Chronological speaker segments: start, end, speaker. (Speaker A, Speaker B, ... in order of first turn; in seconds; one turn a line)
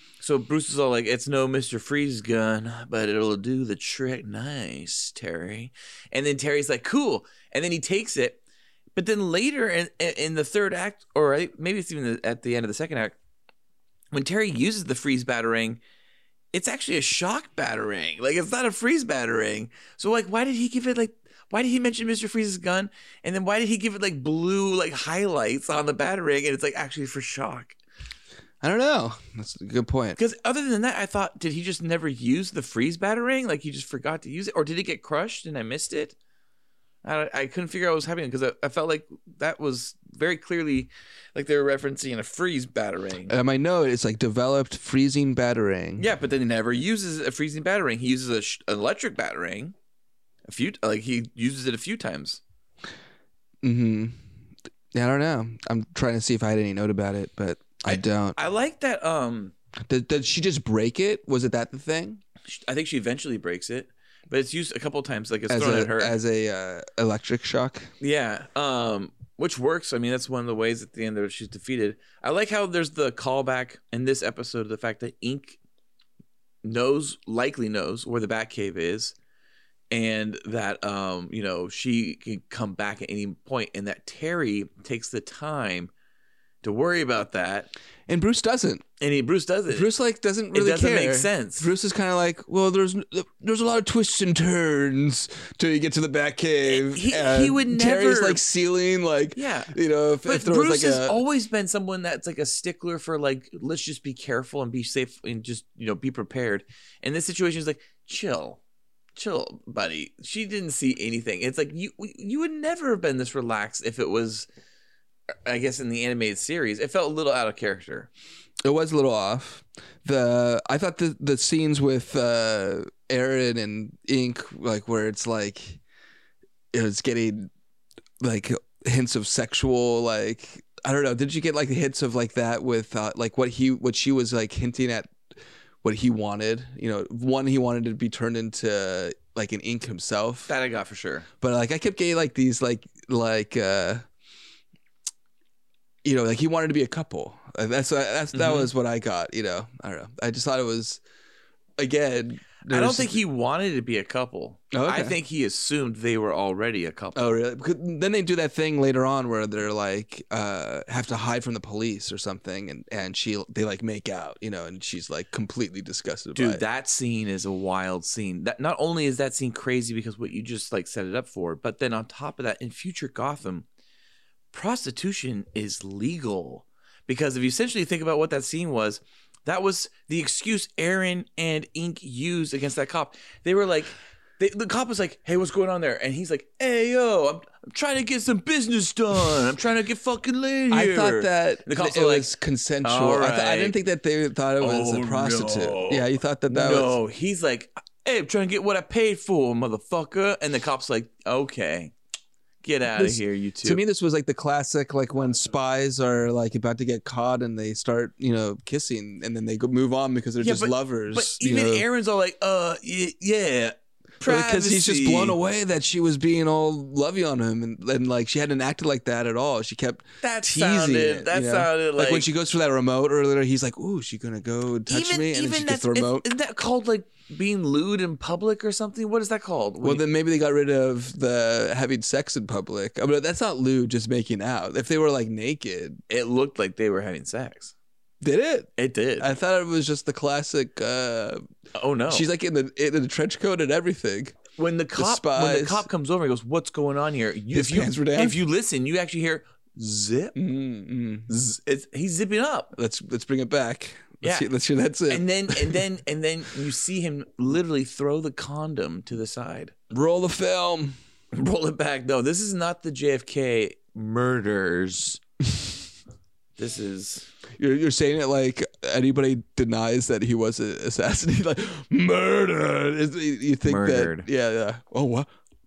Speaker A: 0.2-8.4
Speaker A: 8.9-13.2
Speaker A: 14.1-15.8
Speaker A: 16.5-27.8
Speaker B: 28.6-30.2
Speaker A: 30.2-36.1
Speaker A: 37.0-43.3
Speaker B: 43.3-46.1
Speaker A: 46.0-49.7
Speaker A: 50.5-52.4
Speaker B: 53.6-54.2
Speaker B: 54.9-58.4
Speaker A: 57.9-59.5
Speaker B: 59.9-62.2
Speaker A: 62.5-66.2
Speaker B: 65.5-67.9
Speaker A: 68.0-75.6
Speaker A: 76.6-79.1
Speaker A: 79.9-85.9
Speaker A: 86.6-87.7
Speaker B: 88.1-88.8
Speaker A: 89.0-89.9
Speaker B: 89.7-101.2
Speaker A: 90.5-91.7
Speaker A: 96.7-98.4
Speaker A: 99.3-99.7
Speaker A: 100.2-108.6
Speaker A: 109.1-114.5
Speaker A: 115.4-118.1
Speaker B: 118.6-125.8
Speaker B: 126.7-127.5
Speaker B: 128.2-135.2
Speaker B: 135.8-140.5
Speaker A: 140.5-141.3
Speaker B: 141.4-144.0
Speaker B: 146.0-151.0
Speaker A: 148.3-148.7
Speaker B: 151.8-153.2
Speaker A: 152.7-157.2
Speaker B: 154.7-155.2
Speaker B: 157.1-166.6
Speaker A: 166.3-173.7
Speaker A: 174.5-192.3
Speaker B: 190.7-196.9
Speaker A: 192.8-193.8
Speaker A: 194.6-201.9
Speaker A: 202.6-203.8
Speaker B: 202.9-211.8
Speaker A: 210.4-215.3
Speaker B: 214.2-226.3
Speaker A: 220.2-222.3
Speaker A: 224.9-230.0
Speaker B: 229.8-236.0
Speaker A: 236.1-237.7
Speaker B: 238.2-241.4
Speaker A: 238.8-239.3
Speaker A: 241.7-242.3
Speaker B: 242.1-244.4
Speaker A: 244.6-250.4
Speaker B: 245.0-245.8
Speaker B: 247.5-248.4
Speaker B: 250.3-251.3
Speaker A: 251.3-252.7
Speaker B: 252.7-255.8
Speaker A: 254.2-254.5
Speaker A: 255.1-259.7
Speaker B: 259.9-261.0
Speaker A: 261.3-265.2
Speaker A: 266.6-267.3
Speaker B: 267.6-275.3
Speaker A: 273.6-274.3